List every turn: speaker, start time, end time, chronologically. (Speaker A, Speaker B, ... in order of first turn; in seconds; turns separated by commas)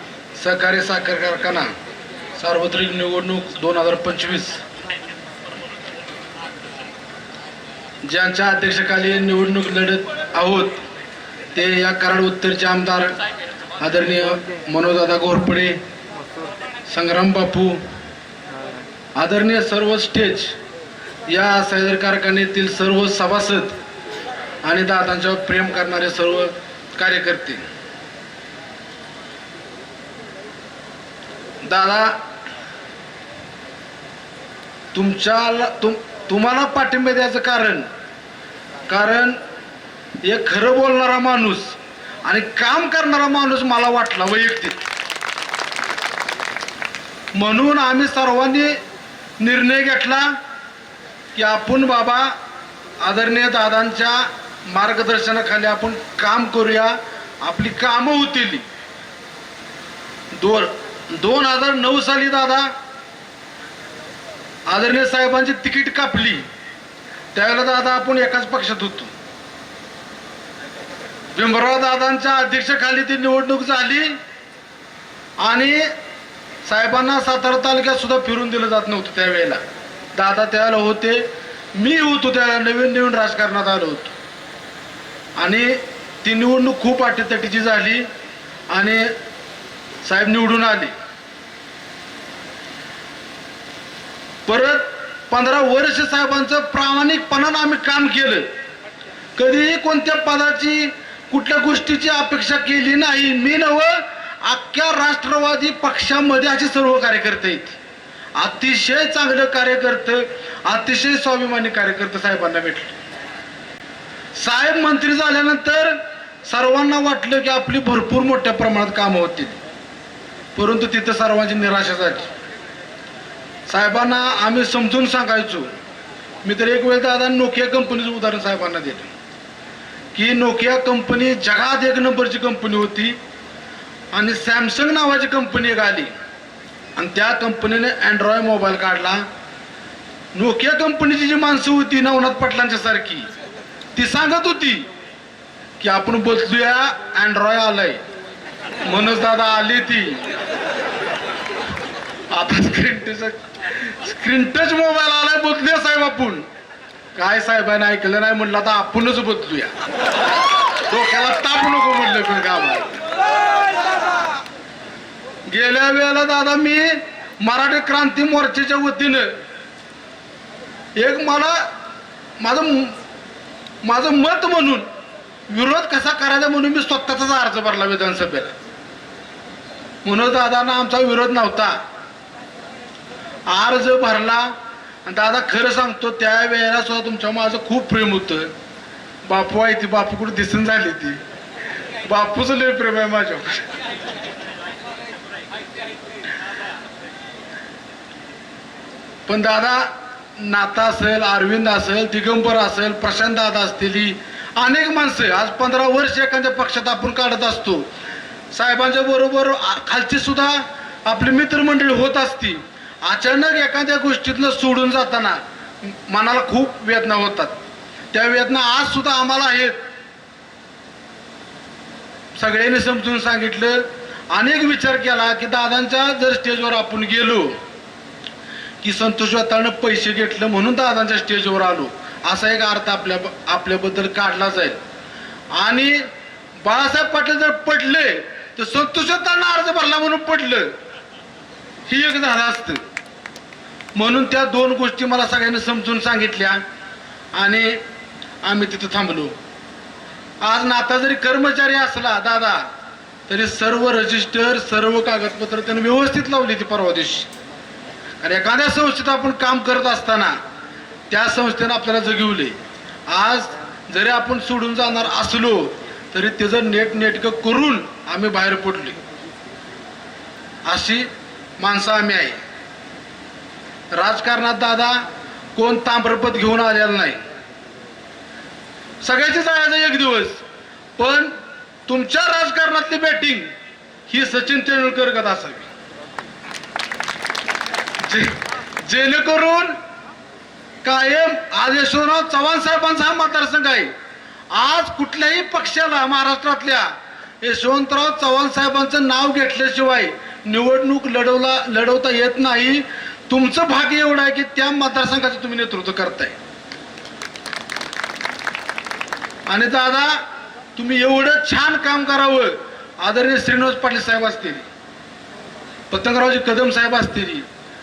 Speaker A: 0.4-1.7, Speaker A: 2.4-4.6, Speaker A: 8.1-10.8, Speaker A: 11.5-13.2, Speaker A: 13.8-15.8, Speaker A: 16.9-17.8, Speaker A: 19.2-20.6, Speaker A: 21.3-23.8, Speaker A: 24.6-27.6, Speaker A: 31.6-32.1, Speaker A: 34.9-37.9, Speaker A: 38.9-39.4, Speaker A: 40.2-44.8, Speaker A: 47.3-48.8, Speaker A: 49.4-50.3, Speaker A: 51.4-52.3, Speaker A: 53.0-58.6, Speaker A: 60.3-62.7, Speaker A: 64.7-66.5, Speaker A: 67.3-69.1, Speaker A: 71.3-74.2, Speaker A: 75.4-75.9, Speaker A: 76.7-79.6, Speaker A: 80.2-84.1, Speaker A: 85.4-88.1, Speaker A: 88.7-89.1, Speaker A: 90.0-90.9, Speaker A: 94.5-98.5, Speaker A: 99.4-107.8, Speaker A: 108.4-113.0, Speaker A: 114.3-119.6, Speaker A: 120.5-122.3, Speaker A: 123.7-125.7, Speaker A: 126.4-129.1, Speaker A: 130.2-133.2, Speaker A: 134.1-136.1, Speaker A: 137.0-139.2, Speaker A: 140.3-143.3, Speaker A: 144.0-144.9, Speaker A: 145.8-148.0, Speaker A: 148.8-150.3, Speaker A: 152.3-156.4, Speaker A: 157.2-159.7, Speaker A: 160.9-163.0, Speaker A: 165.5-169.3, Speaker A: 171.0-171.6, Speaker A: 172.4-173.0, Speaker A: 173.8-174.9, Speaker A: 175.5-178.6, Speaker A: 180.0-181.8, Speaker A: 183.5-184.5, Speaker A: 185.1-188.5, Speaker A: 189.2-191.2, Speaker A: 192.1-193.7, Speaker A: 199.3-207.9, Speaker A: 208.5-217.6, Speaker A: 218.1-219.7, Speaker A: 222.3-227.6, Speaker A: 228.8-234.8, Speaker A: 235.5-236.1, Speaker A: 236.6-240.7, Speaker A: 241.9-242.8, Speaker A: 243.9-246.6, Speaker A: 247.3-247.8, Speaker A: 248.4-249.3, Speaker A: 250.4-252.7, Speaker A: 253.3-257.3, Speaker A: 258.2-260.4, Speaker A: 261.1-262.6, Speaker A: 263.1-269.0, Speaker A: 270.7-272.4, Speaker A: 273.9-275.0, Speaker A: 275.6-277.2, Speaker A: 279.0-280.4, Speaker A: 281.0-281.3, Speaker A: 281.9-283.5, Speaker A: 284.1-285.7, Speaker A: 288.0-289.8, Speaker A: 290.8-293.9, Speaker A: 294.5-296.9, Speaker A: 297.4-306.4, Speaker A: 309.5-310.2, Speaker A: 310.8-314.7, Speaker A: 315.9-317.5